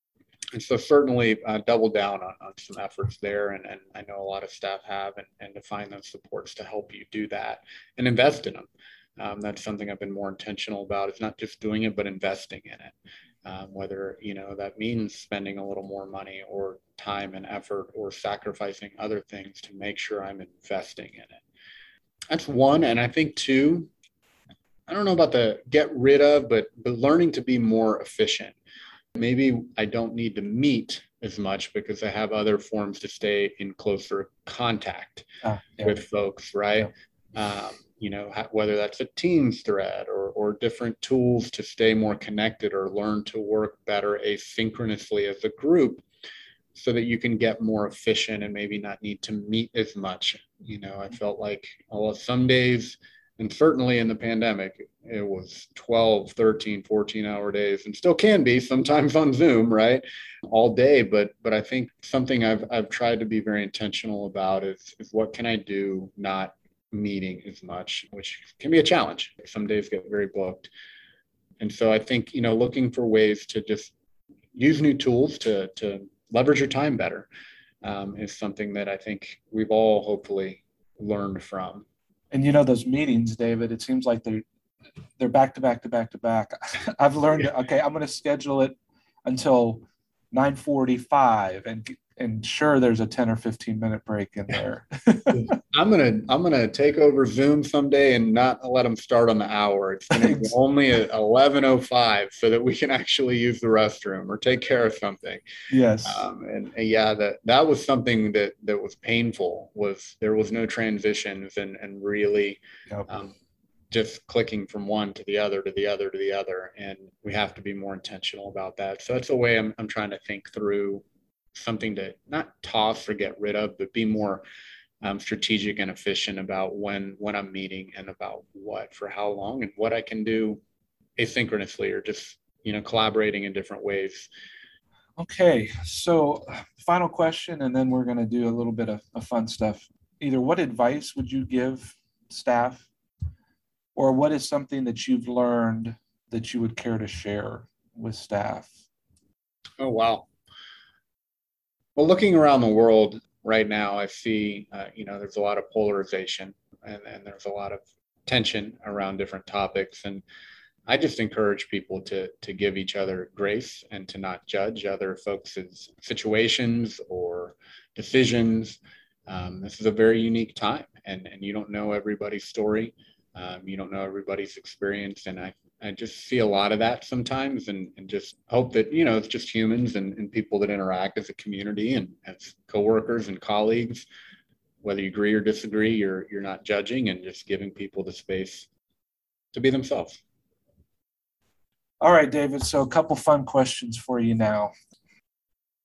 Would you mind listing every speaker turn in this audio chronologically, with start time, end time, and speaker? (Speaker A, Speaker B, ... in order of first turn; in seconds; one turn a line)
Speaker A: 0.5-21.4
Speaker A: 22.3-23.9
Speaker A: 24.9-28.6
Speaker A: 29.1-35.3
Speaker B: 35.4-36.0
Speaker A: 35.8-46.0
Speaker A: 46.7-70.7
Speaker A: 71.6-73.9
Speaker A: 74.5-77.3
Speaker A: 77.8-81.8
Speaker B: 82.3-84.4
Speaker B: 85.2-95.4
Speaker A: 95.3-105.4
Speaker B: 100.1-100.5
Speaker B: 105.7-106.3
Speaker A: 106.0-113.3
Speaker A: 113.9-124.4
Speaker A: 125.0-130.6
Speaker A: 131.2-134.3
Speaker B: 135.2-142.9
Speaker B: 143.9-148.7
Speaker A: 149.8-150.3
Speaker A: 151.9-160.2
Speaker A: 160.9-184.1
Speaker A: 184.8-188.7
Speaker A: 189.5-190.2
Speaker B: 192.0-194.7